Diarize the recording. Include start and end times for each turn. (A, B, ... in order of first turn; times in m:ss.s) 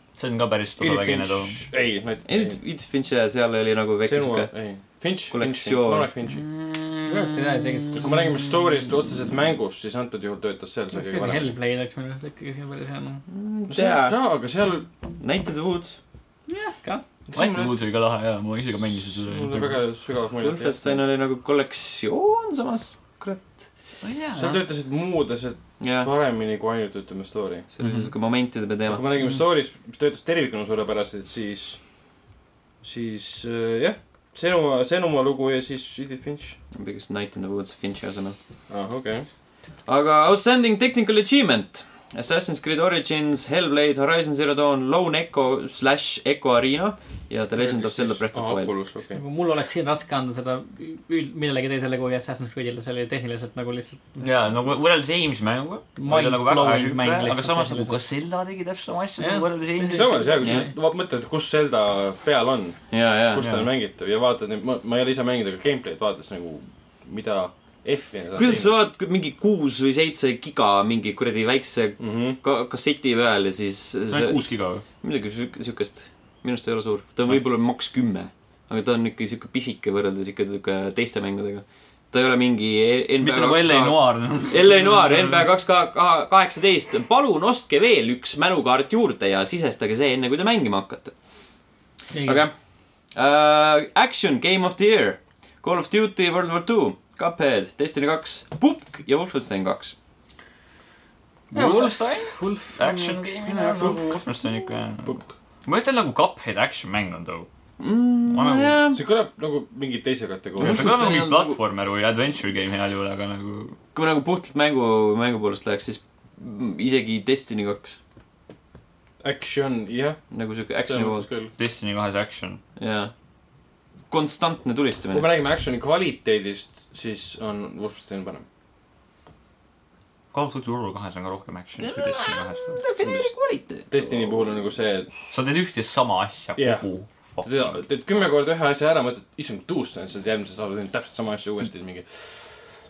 0:00.2-0:01.6 A
0:00.8-0:02.6 B
0:02.3-0:04.5 C
0:04.0-0:06.4 B
0:05.3-0:06.1 C
0:06.3-0:08.7 A
0:07.0-0:08.0 D
0:07.9-0:11.5 B
0:10.9-0:13.2 D
0:13.3-0:14.2 C
0:13.7-0:14.8 B
0:15.2-0:16.0 C
0:16.5-0:17.0 D
0:17.3-0:17.7 B
0:17.3-0:19.8 A
0:19.2-0:21.0 B
0:20.4-0:23.7 C
0:24.0-0:24.6 A
0:24.4-0:27.7 B
0:25.8-0:26.1 C
0:27.7-0:29.0 C
0:27.8-0:28.1 A
0:28.9-0:31.8 B
0:32.8-0:36.6 B
0:36.7-0:38.4 C
0:38.7-0:39.3 B
0:39.8-0:48.7 C
0:47.6-0:49.2 B
0:49.1-0:54.2 D
0:54.2-1:00.3 A
0:56.0-0:57.9 D
0:59.2-1:00.7 D
0:59.8-1:08.7 B
1:00.4-1:00.7 C
1:02.9-1:03.4 C
1:03.4-1:03.7 A
1:08.3-1:14.4 C
1:12.0-1:12.4 B
1:14.1-1:14.8 A
1:15.0-1:24.0 C
1:23.2-1:25.4 A
1:24.5-1:31.1 C
1:32.1-1:32.5 D
1:32.2-1:32.5 C
1:33.1-1:39.9 C
1:41.5-1:42.1 A
1:41.5-1:44.0 D
1:41.8-1:44.0 B
1:42.8-1:45.1 A
1:45.0-1:45.3 B
1:45.6-1:47.5 A
1:47.8-1:49.0 C
1:48.3-1:48.8 A
1:48.9-1:50.9 B
1:50.6-1:51.6 C
1:50.6-1:53.8 A
1:53.9-1:58.0 C
1:59.2-2:00.2 B
2:00.3-2:01.3 C
2:00.8-2:01.5 B
2:01.6-2:02.6 A
2:02.8-2:03.1 C
2:04.1-2:05.2 C
2:05.1-2:08.4 B
2:10.3-2:12.8 A
2:11.8-2:14.3 C
2:13.0-2:13.3 B
2:13.9-2:15.1 B
2:15.3-2:17.8 A
2:16.6-2:16.8 B
2:17.4-2:22.5 B